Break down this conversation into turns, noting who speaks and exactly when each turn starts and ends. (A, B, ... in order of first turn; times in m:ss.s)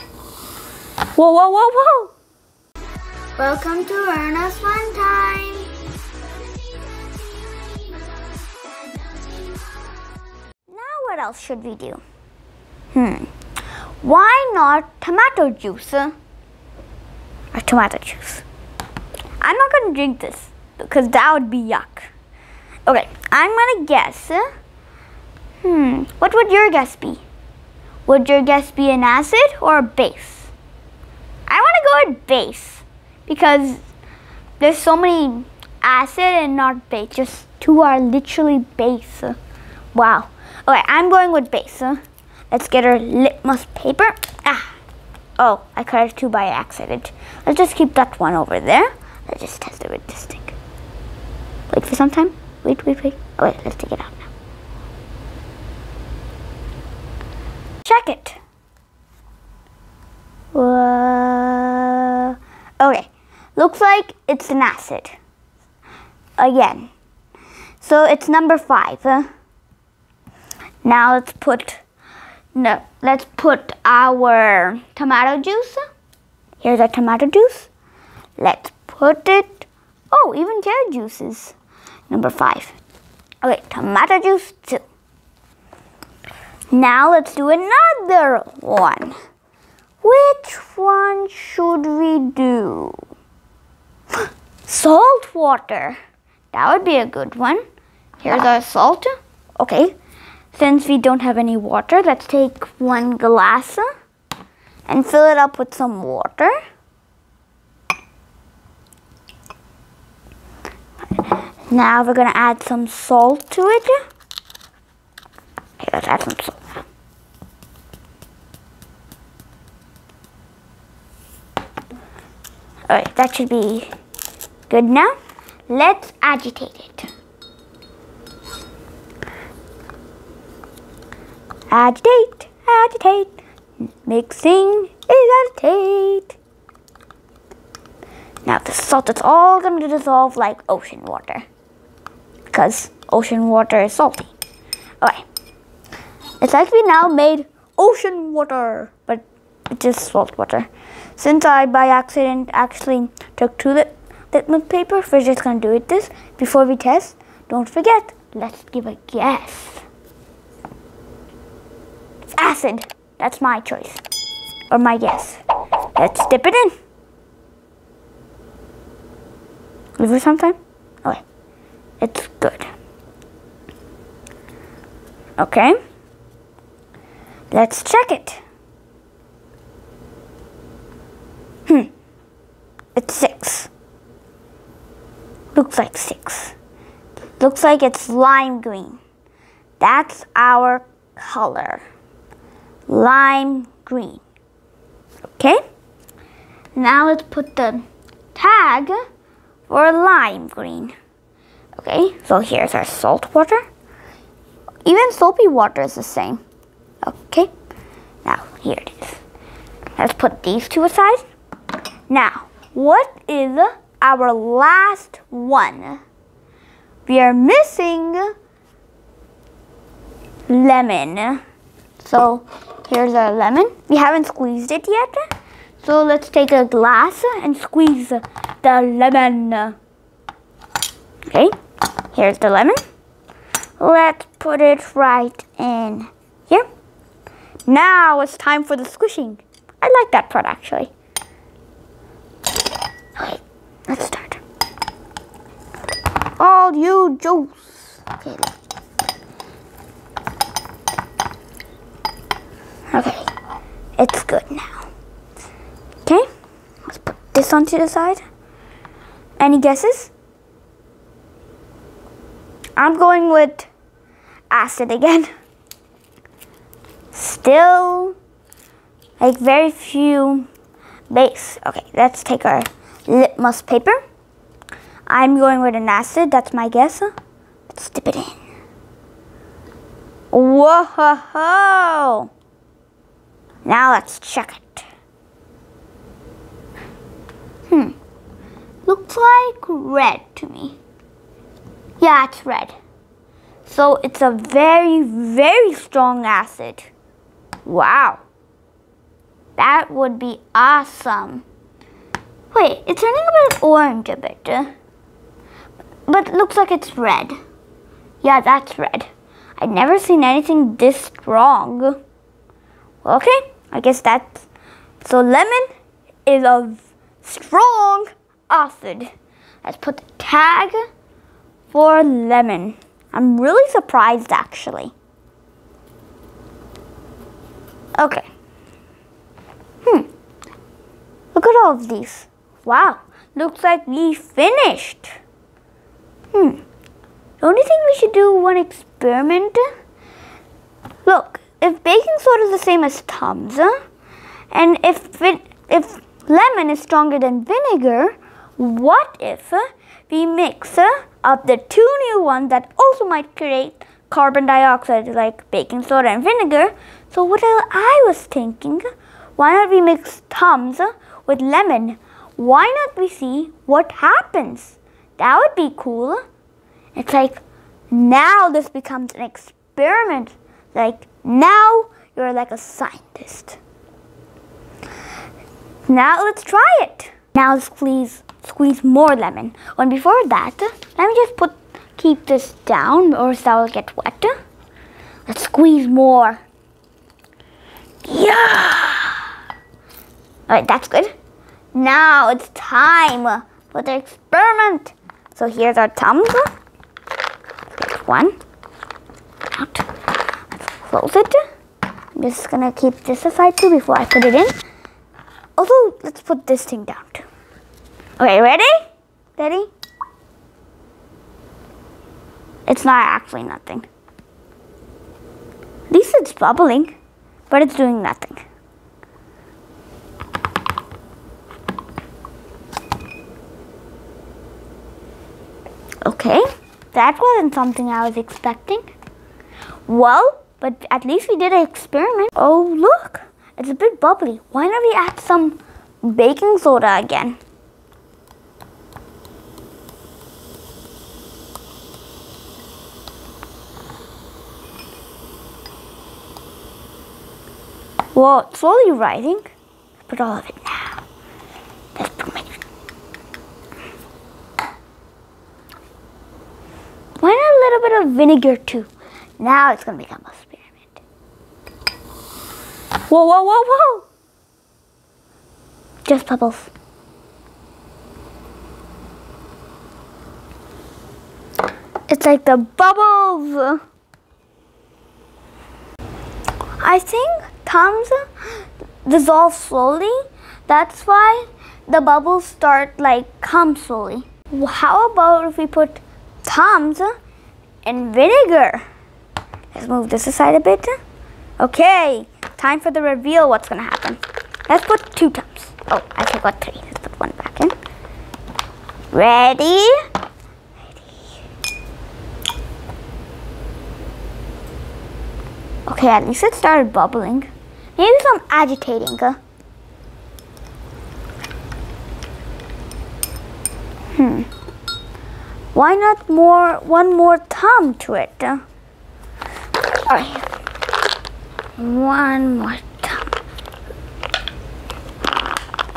0:01.2-0:02.1 A
0:03.4-0:05.7 A
0:10.7-0:12.0 A
0:12.9-0:13.3 A
0:14.0-0:16.2 A
0:17.5-0:18.4 A
0:19.4-0:22.1 A
0:22.9-0:24.4 A
0:25.6-0:27.2 A
0:28.1-0:30.5 A
0:31.5-0:33.8 A
0:34.6-0:39.4 A
0:39.9-0:42.0 A
0:42.5-0:44.7 A
0:45.4-0:50.6 A
0:51.7-0:54.3 A
0:57.8-0:58.4 A
1:00.5-1:05.2 A
1:06.4-1:06.9 A
1:07.8-1:09.3 A
1:10.8-1:11.8 A
1:12.6-1:15.8 A
1:16.6-1:17.7 A
1:18.4-1:21.6 A
1:22.1-1:22.8 A
1:23.4-1:24.8 A
1:26.7-1:29.2 A
1:30.0-1:33.0 A
1:34.7-1:36.0 A
1:36.5-1:37.6 A
1:38.2-1:40.0 A
1:40.5-1:43.9 A
1:44.9-1:46.5 A
1:51.2-1:54.0 A
1:55.8-1:56.8 A
2:02.9-2:03.9 A
2:04.7-2:05.2 A
2:05.7-2:07.1 A
2:11.7-2:16.4 A
2:18.4-2:21.4 A
2:22.5-2:24.3 A
2:25.0-2:25.3 A
2:26.4-2:39.8 A
2:42.4-2:44.0 A
2:44.7-2:45.4 A
2:46.0-2:46.8 A
2:50.0-2:51.2 A
2:52.0-2:52.7 A
2:55.4-2:55.8 A
2:57.5-2:58.4 A
3:03.0-3:03.7 A
3:05.5-3:06.5 A
3:07.4-3:09.0 A
3:09.8-3:11.8 A
3:12.9-3:14.2 A
3:15.3-3:15.6 A
3:16.8-3:19.0 A
3:19.7-3:20.9 A
3:21.8-3:23.6 A
3:24.8-3:26.4 A
3:27.0-3:27.5 A
3:28.2-3:29.2 A
3:30.0-3:31.2 A
3:32.1-3:36.0 A
3:37.1-3:38.3 A
3:40.5-3:41.4 A
3:42.0-3:45.2 A
3:45.8-3:49.8 A
3:51.3-3:51.6 A
3:52.1-3:52.8 A
3:53.8-3:56.7 A
3:57.7-4:00.9 A
4:03.2-4:04.4 A
4:06.4-4:08.5 A
4:12.9-4:13.3 A
4:14.0-4:14.9 A
4:16.9-4:18.2 A
4:19.4-4:20.1 A
4:22.8-4:23.7 A
4:24.5-4:25.3 A
4:27.1-4:28.2 A
4:29.2-4:30.5 A
4:31.1-4:34.0 A
4:35.1-4:37.1 A
4:37.7-4:38.4 A
4:40.3-4:42.3 A
4:43.6-4:44.9 A
4:47.7-4:48.0 A
4:48.9-4:50.8 A
4:52.0-4:52.8 A
4:53.7-4:56.9 A
4:57.6-4:58.2 A
4:59.6-5:01.4 A
5:02.5-5:04.7 A
5:06.1-5:07.4 A
5:08.2-5:12.0 A
5:13.0-5:14.5 A
5:15.0-5:15.7 A
5:16.3-5:19.1 A
5:19.6-5:20.8 A
5:21.7-5:24.9 A
5:28.0-5:28.3 A
5:31.3-5:35.2 A
5:36.3-5:36.6 A
5:37.4-5:39.6 A
5:41.0-5:43.7 A
5:44.5-5:58.9 A
5:59.4-6:06.2 A
6:07.0-6:13.6 A
6:15.9-6:24.3 A
6:25.3-6:26.4 A
6:28.0-6:29.3 A
6:30.5-6:31.1 A
6:31.7-6:36.5 A
6:37.7-6:38.4 A
6:39.5-6:39.9 A
6:40.7-6:41.4 A
6:42.2-6:44.6 A
6:45.6-6:47.2 A
6:48.2-6:48.8 A
6:49.4-6:49.7 A
6:52.7-6:53.9 A
6:55.9-6:56.9 A
6:57.5-6:58.4 A
7:06.0-7:08.9 A
7:09.9-7:17.4 A
7:28.1-7:29.5 A
7:30.1-7:31.0 A
7:32.0-7:32.6 A
7:37.2-7:41.0 A
7:43.1-7:44.1 A
7:46.1-7:46.7 A
7:52.1-7:53.8 A
7:56.8-8:07.1 A
8:07.8-8:08.8 A
8:09.7-8:11.0 A
8:11.6-8:17.8 A
8:19.1-8:20.0 A
8:25.9-8:29.4 A
8:34.1-8:34.5 A
8:35.7-8:38.6 A
8:40.1-8:40.5 A
8:41.8-8:43.3 A